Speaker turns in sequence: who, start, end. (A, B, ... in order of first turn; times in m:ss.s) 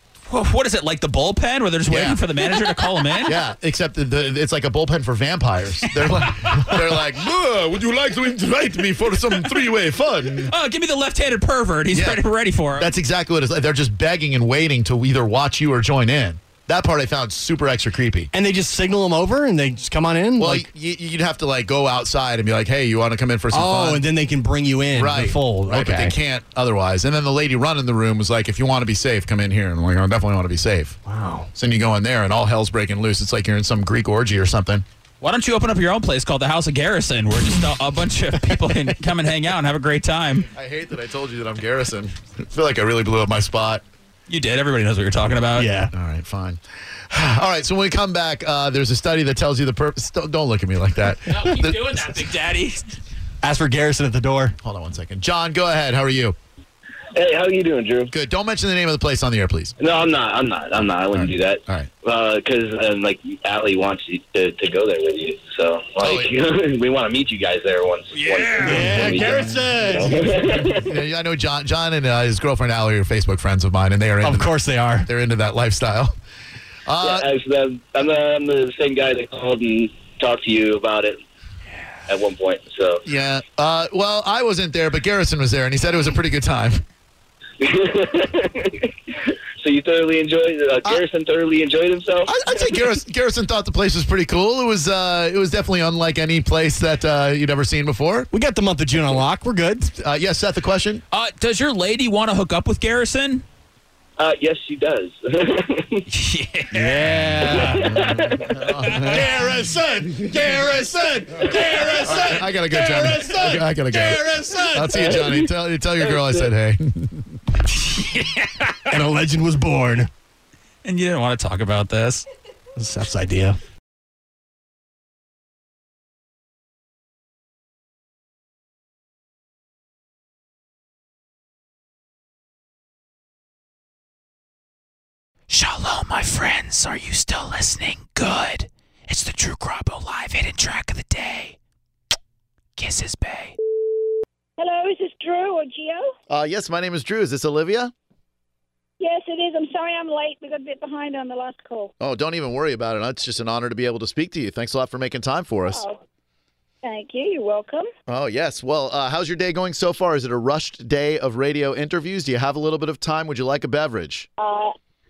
0:00.3-0:03.4 A
0:01.9-0:02.2 B
0:03.2-0:10.5 B
0:10.4-0:12.9 A
0:11.9-0:12.2 B
0:12.7-0:18.3 B
0:18.3-0:20.6 C
0:20.4-0:24.0 B
0:23.5-0:26.2 C
0:24.9-0:31.0 B
0:31.0-0:31.5 C
0:31.5-0:34.8 B
0:35.2-0:40.5 A
0:40.5-0:43.8 B
0:44.3-0:45.7 A
0:45.6-0:45.9 C
0:45.9-0:52.1 B
0:51.3-0:53.0 A
0:53.4-0:54.6 C
0:54.6-0:56.4 B
0:57.1-0:58.1 D
0:58.1-0:59.7 B
0:59.8-1:11.0 D
1:01.1-1:01.9 B
1:06.0-1:06.3 B
1:08.1-1:09.1 A
1:08.6-1:10.3 C
1:09.0-1:09.6 B
1:10.6-1:14.5 B
1:14.2-1:15.1 C
1:15.0-1:16.1 B
1:16.8-1:17.3 B
1:17.0-1:21.2 D
1:22.0-1:23.1 D
1:23.0-1:26.8 B
1:27.6-1:32.9 D
1:32.3-1:38.3 B
1:38.3-1:39.9 C
1:40.0-1:41.0 B
1:41.1-1:43.4 A
1:44.2-1:46.1 D
1:46.1-1:47.2 A
1:46.7-1:48.0 C
1:47.3-1:49.4 B
1:47.5-1:48.7 D
1:48.8-1:49.1 A
1:48.9-1:55.2 C
1:52.0-1:57.3 B
1:55.0-1:56.5 D
1:57.7-1:58.9 A
1:58.9-2:00.1 C
2:00.8-2:02.2 A
2:02.8-2:03.6 C
2:15.5-2:21.6 A
2:22.8-2:23.6 A
2:24.6-2:26.1 E
2:26.3-2:27.9 B
2:29.0-2:31.9 E
2:32.0-2:35.8 B
2:35.7-2:36.0 E
2:36.8-2:37.9 E
2:38.1-2:44.3 B
2:44.4-2:44.7 E